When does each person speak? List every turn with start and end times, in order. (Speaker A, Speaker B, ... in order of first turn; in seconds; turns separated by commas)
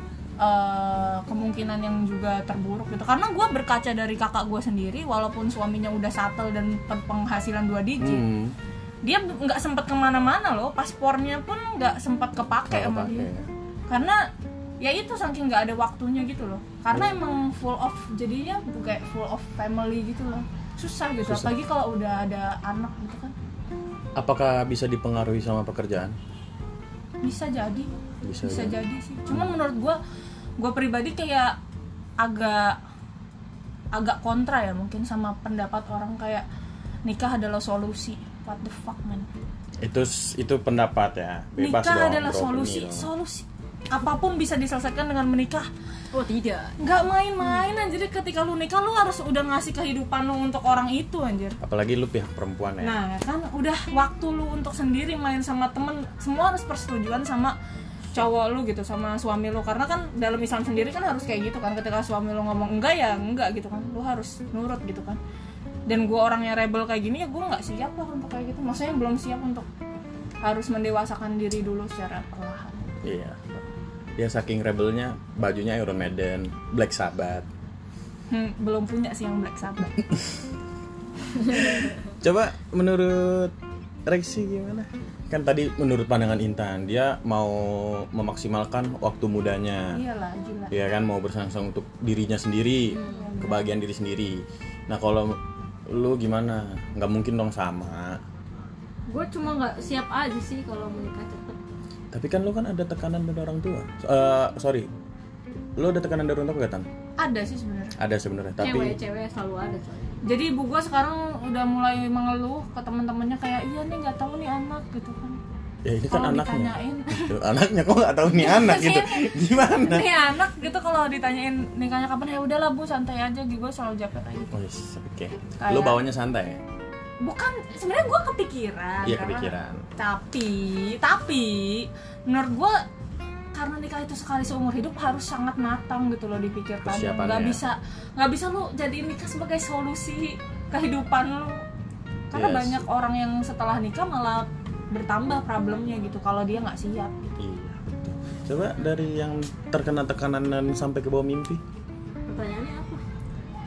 Speaker A: 0.4-8.2, Speaker B: 8.0-8.6, Speaker A: 9.0-13.3, Speaker B: 12.7-13.5, Speaker A: 13.9-14.3, Speaker A: 14.8-23.3, Speaker B: 21.2-21.5, Speaker B: 24.2-26.2, Speaker A: 27.2-27.9, Speaker B: 28.2-28.8, Speaker A: 28.4-30.0, Speaker B: 29.3-29.6, Speaker A: 30.6-31.6, Speaker A: 32.2-32.8, Speaker A: 33.9-36.5, Speaker A: 37.0-39.3, Speaker B: 39.8-43.1, Speaker A: 41.6-45.7, Speaker C: 46.1-46.7, Speaker A: 46.8-51.6, Speaker B: 51.6-53.0, Speaker A: 52.8-57.6, Speaker A: 58.1-65.2, Speaker A: 65.9-69.7, Speaker A: 70.4-72.9, Speaker B: 73.0-73.7, Speaker B: 74.2-77.5, Speaker A: 78.3-80.0, Speaker A: 81.5-81.8, Speaker B: 81.5-83.5, Speaker B: 84.1-90.0, Speaker A: 89.9-90.7, Speaker B: 90.7-98.2, Speaker C: 92.9-93.3, Speaker A: 93.1-93.7, Speaker C: 99.1-101.6, Speaker B: 102.1-104.9, Speaker B: 105.8-106.9, Speaker A: 107.2-108.0, Speaker B: 108.0-109.0, Speaker C: 108.6-110.1, Speaker A: 110.2-115.4, Speaker B: 115.8-120.1, Speaker A: 116.1-117.4, Speaker A: 118.3-124.5, Speaker B: 124.5-126.6, Speaker A: 125.6-126.0, Speaker A: 127.2-132.8, Speaker B: 129.0-129.8, Speaker A: 133.5-141.6, Speaker B: 136.8-137.6, Speaker A: 142.3-147.3, Speaker B: 142.3-142.8, Speaker B: 147.4-151.6, Speaker C: 152.3-153.0